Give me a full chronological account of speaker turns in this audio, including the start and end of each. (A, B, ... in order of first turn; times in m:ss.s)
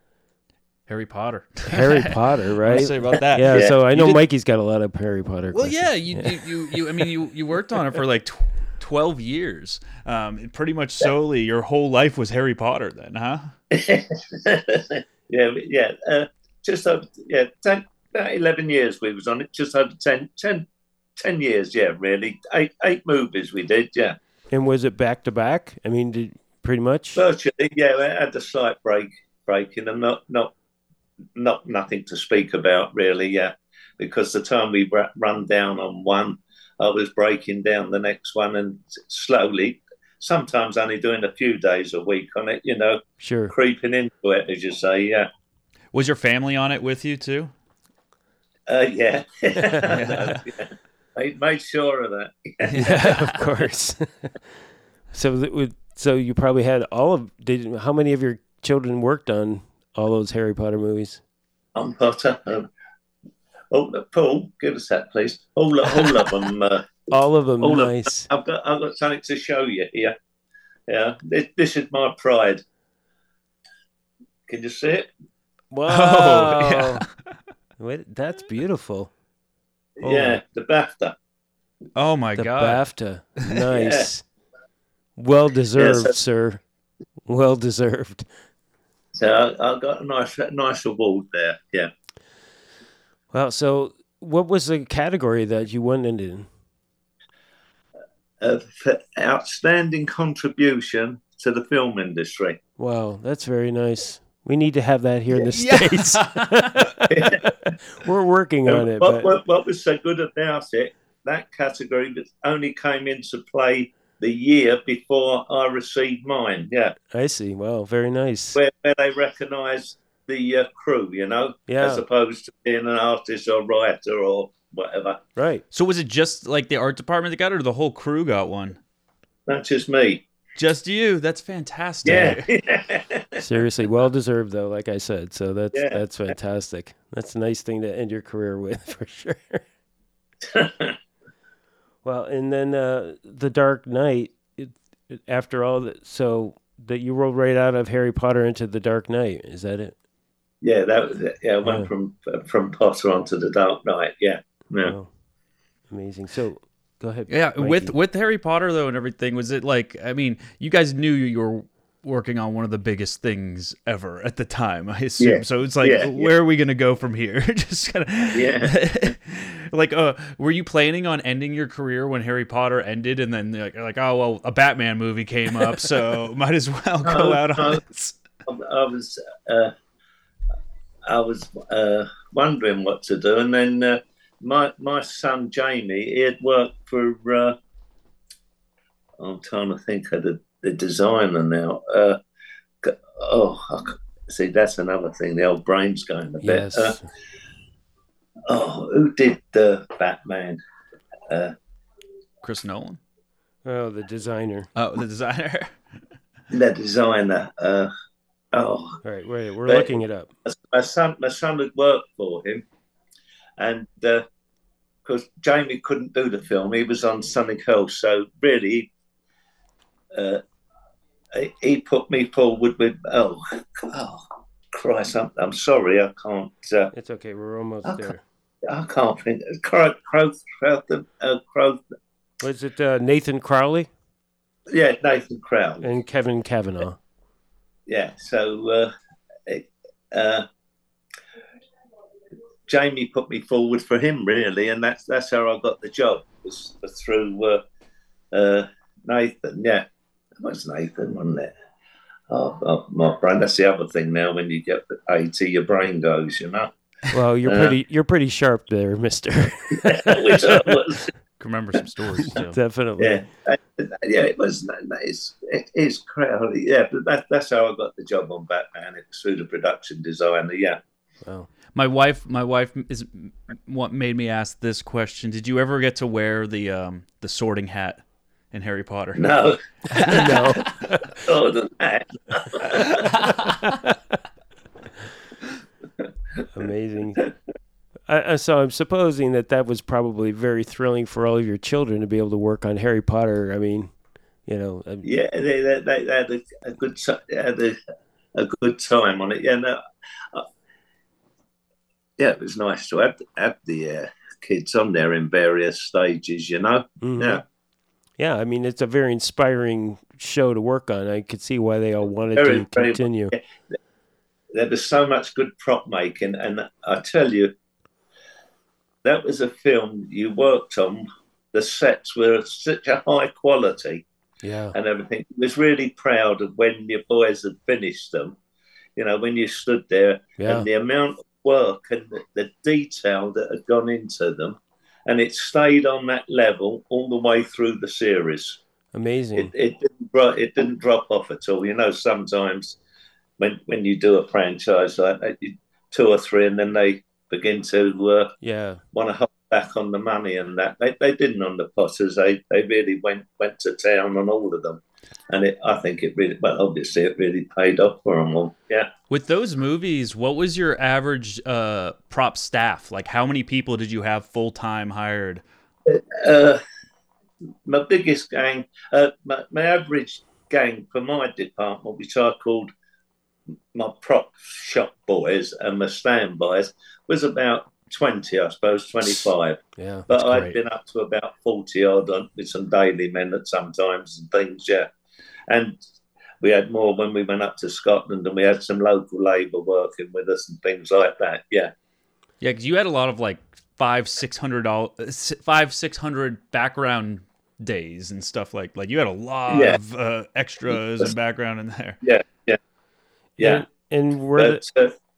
0:00.9-0:04.2 A
0:01.6-0:06.4 B
0:03.4-0:03.7 C
0:05.5-0:13.5 A
0:13.7-0:24.2 C
0:24.5-0:27.2 B
0:27.2-0:30.5 C
0:31.4-0:45.3 C
0:43.2-0:43.5 B
0:45.9-0:47.5 A
0:48.7-0:52.8 C
0:49.8-0:50.4 A
0:52.6-0:53.4 A
0:52.7-0:54.3 B
0:55.1-1:01.2 B
1:01.7-1:02.7 C
1:03.7-1:06.9 C
1:07.1-1:08.3 B
1:07.6-1:10.1 C
1:10.9-1:12.6 C
1:14.5-1:15.1 C
1:15.7-1:17.0 B
1:15.9-1:17.0 A
1:17.8-1:19.1 B
1:20.0-1:21.2 C
1:20.0-1:20.4 B
1:22.0-1:22.8 A
1:22.4-1:24.2 B
1:23.7-1:24.1 C
1:25.2-1:26.6 B
1:25.8-1:26.1 C
1:27.2-1:28.3 B
1:29.2-1:31.9 C
1:33.3-1:36.5 B
1:38.4-1:42.6 C
1:42.8-1:49.3 B
1:45.5-1:46.9 A
1:47.1-1:47.4 C
1:48.6-1:57.0 C
1:57.1-1:58.6 B
1:58.5-2:05.2 C
2:01.7-2:02.0 B
2:05.4-2:05.6 B
2:05.7-2:08.8 A
2:09.5-2:10.2 C
2:10.6-2:12.5 A
2:12.0-2:13.4 C
2:12.1-2:12.3 B
2:13.4-2:19.6 B
2:15.7-2:16.3 C
2:20.4-2:21.0 C
2:22.0-2:29.9 B
2:30.6-2:34.9 C
2:31.6-2:31.9 B
2:34.8-2:35.1 B
2:35.9-2:37.9 B
2:37.3-2:58.1 A
2:45.2-2:46.3 C
2:48.3-2:48.7 C
2:57.0-2:57.8 C
2:58.4-2:59.7 C
3:01.1-3:07.6 C
3:09.2-3:12.2 C
3:12.8-3:17.0 C
3:16.4-3:17.0 B
3:18.5-3:20.6 C
3:21.3-3:21.5 C
3:22.4-3:23.0 A
3:23.6-3:24.7 B
3:24.8-3:25.7 A
3:26.5-3:27.9 C
3:28.5-3:29.0 C
3:29.0-3:30.3 B
3:29.7-3:29.9 C
3:30.4-3:32.6 C
3:33.6-3:34.2 C
3:35.0-3:38.9 C
3:40.1-3:40.4 C
3:41.3-3:46.9 C
3:46.9-3:48.2 B
3:48.6-3:51.8 C
3:52.4-3:53.9 B
3:54.7-3:55.9 C
3:55.8-3:57.0 B
3:57.9-3:58.9 C
3:59.4-4:00.4 C
4:02.7-4:07.6 C
4:08.3-4:09.8 C
4:10.4-4:11.5 C
4:12.3-4:16.7 C
4:17.1-4:20.8 B
4:17.4-4:17.7 C
4:19.8-4:21.1 C
4:21.4-4:22.6 A
4:22.3-4:23.2 B
4:23.0-4:30.8 C
4:31.7-4:39.3 A
4:39.2-4:40.5 C
4:39.9-4:40.8 A
4:40.0-4:41.1 B
4:41.2-4:43.1 C
4:42.9-4:43.7 A
4:43.0-4:43.9 B
4:46.5-4:47.2 B
4:48.1-4:53.9 B
4:54.4-4:55.1 B
4:55.0-4:57.8 C
4:58.3-5:00.5 C
5:02.2-5:07.4 C
5:07.0-5:07.4 B
5:08.2-5:13.3 B
5:12.3-5:13.8 C
5:14.5-5:17.5 C
5:19.0-5:24.0 C
5:24.4-5:24.7 B
5:24.7-5:28.4 C
5:29.0-5:38.6 C
5:30.4-5:30.7 B
5:38.9-5:39.5 B
5:39.4-5:42.8 C
5:43.4-5:48.3 C
5:48.4-5:48.8 B
5:48.9-5:58.9 C
5:59.1-6:05.4 A
6:05.8-6:06.6 C
6:07.6-6:12.7 C
6:13.7-6:24.9 C
6:19.8-6:20.1 B
6:20.2-6:20.6 A
6:25.5-6:25.8 C
6:26.4-6:31.7 C
6:32.4-6:42.0 A
6:39.5-6:39.8 C
6:42.0-6:42.6 C
6:43.4-6:44.6 B
6:43.4-6:43.6 C
6:44.4-6:45.0 C